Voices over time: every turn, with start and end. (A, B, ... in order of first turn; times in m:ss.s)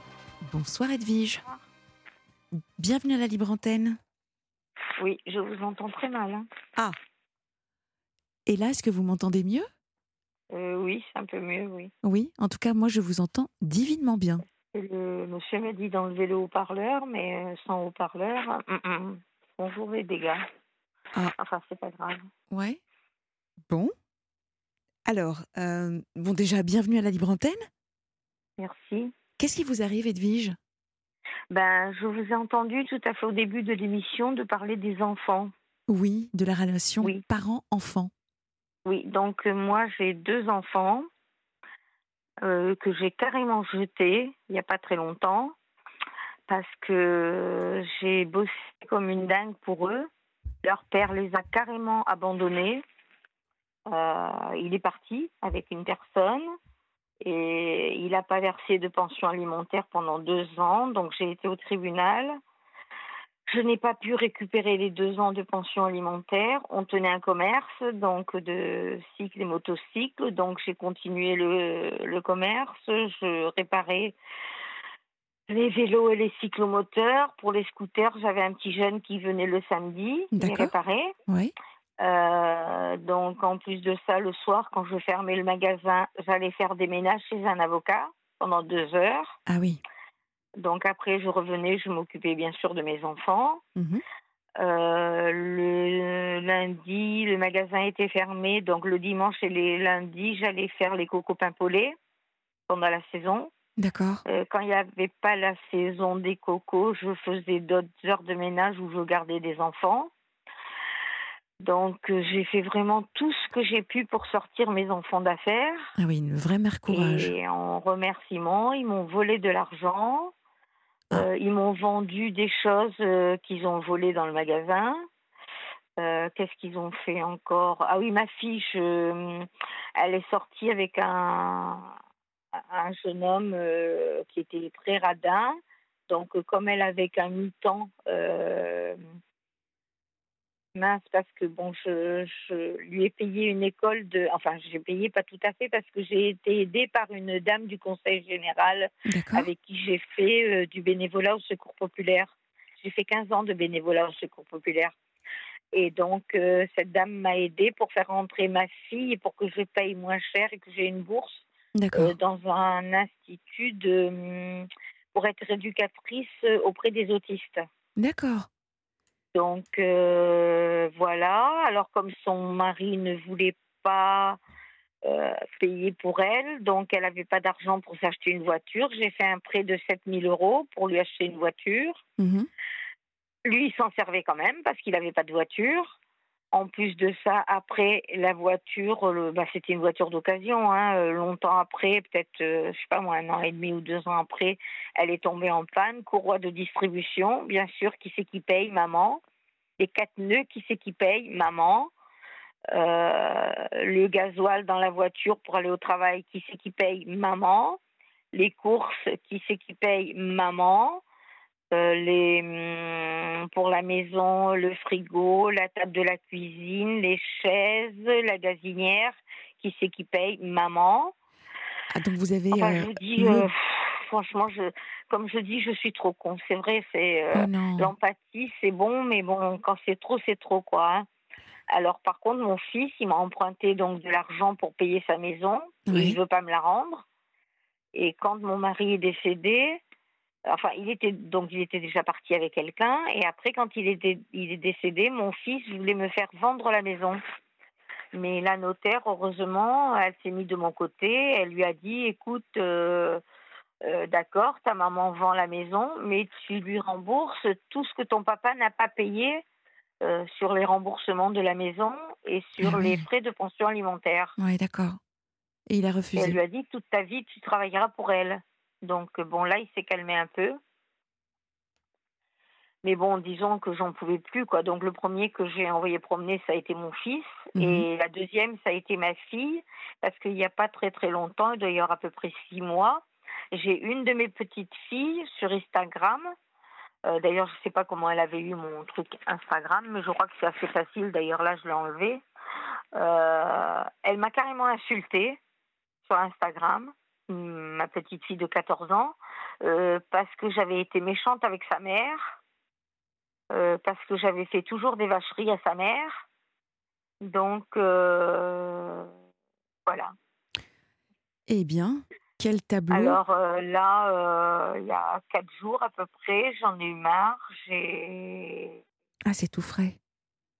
0:00.4-0:01.4 A
0:02.5-0:04.0 A
0:05.0-0:06.4 B
0:08.5-0:09.7 A
0:10.5-0:11.9 B
0:12.0-0:14.4 A
0:14.7-0:20.4 B
0:21.4-0:22.2 B
0:22.5-0:22.8 A
0:25.0-0:27.7 A
0:28.6-0:29.1 B
0:29.4-0:30.6 A
0:31.5-0:35.5 B
0:35.9-0:38.1 A
0:38.8-0:41.1 B
0:42.4-0:45.5 B
0:46.5-0:50.1 B
0:50.6-0:52.8 B
0:53.9-0:56.5 B
0:57.2-1:02.4 B
1:03.5-1:14.2 B
1:15.5-1:21.1 B
1:20.3-1:20.7 A
1:21.3-1:21.5 A
1:22.0-1:29.4 B
1:29.5-1:29.8 A
1:30.6-1:33.6 B
1:33.8-1:34.0 A
1:34.6-1:41.9 B
1:42.7-1:43.5 B
1:43.8-1:44.2 A
1:44.2-1:50.1 B
1:51.6-1:55.9 B
1:56.0-1:57.4 A
1:56.9-2:00.3 B
2:01.1-2:05.0 B
2:06.0-2:11.9 B
2:12.6-2:15.6 B
2:16.1-2:19.0 B
2:20.7-2:35.0 B
2:29.1-2:29.5 A
2:35.7-2:47.6 B
2:41.8-2:42.1 A
2:48.0-2:48.5 A
2:49.3-2:54.4 B
2:55.0-3:02.0 B
3:02.2-3:02.5 A
3:03.4-3:06.0 B
3:06.5-3:19.2 B
3:19.8-3:21.9 B
3:22.7-3:27.8 B
3:28.3-3:31.0 B
3:31.7-3:41.1 B
3:41.9-3:43.5 A
3:42.5-3:51.0 B
3:47.3-3:47.9 A
3:51.7-3:57.0 B
3:55.9-3:56.2 A
3:57.9-3:59.8 B
4:00.5-4:07.2 B
4:08.1-4:13.2 B
4:13.8-4:19.4 B
4:20.0-4:24.3 B
4:22.6-4:23.0 A
4:24.4-4:25.0 A
4:25.7-4:26.4 A
4:26.2-4:30.6 B
4:32.8-4:46.3 B
4:37.6-4:37.8 A
4:47.1-4:52.2 B
4:52.9-4:55.4 B
4:56.0-5:02.4 B
5:03.5-5:06.2 B
5:07.2-5:09.1 B
5:09.8-5:10.1 B
5:11.5-5:13.2 A
5:12.9-5:18.8 B
5:19.3-5:20.0 A